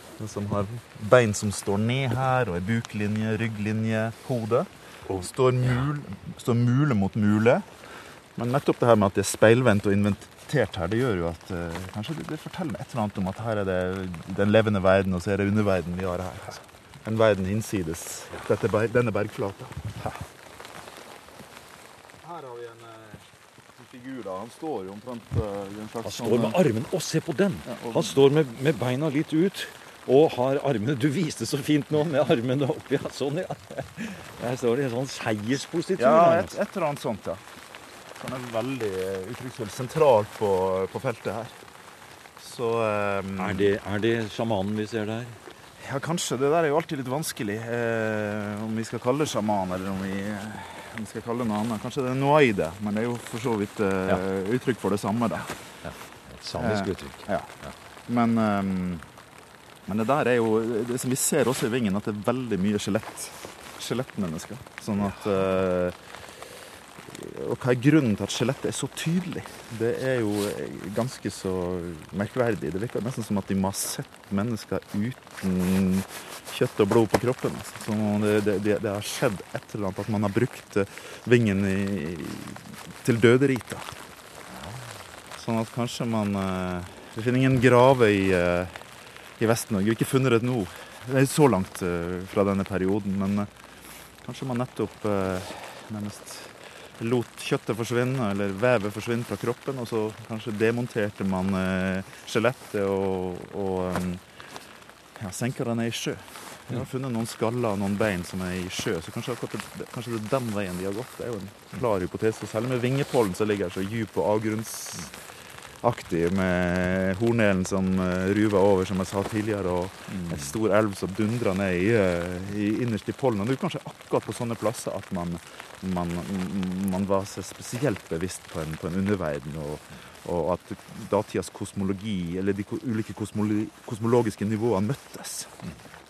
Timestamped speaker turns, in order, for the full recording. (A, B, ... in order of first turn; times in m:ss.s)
0:00.2-0:07.7 A
0:08.4-0:19.8 A
0:22.2-0:26.6 A
0:26.0-0:36.6 B
0:27.6-0:28.2 A
0:36.0-0:37.4 A
0:38.2-0:41.5 A
0:42.4-0:43.7 A
0:43.4-0:45.4 B
0:45.8-0:55.5 A
0:55.8-0:57.7 B
0:56.5-0:57.5 A
0:58.1-0:59.0 A
0:59.8-1:06.0 A
1:07.0-1:23.9 A
1:24.5-1:24.8 B
1:25.4-1:28.8 A
1:29.4-1:33.5 A
1:34.2-1:44.2 A
1:45.2-1:55.2 A
1:55.8-2:15.6 A
2:00.1-2:00.5 B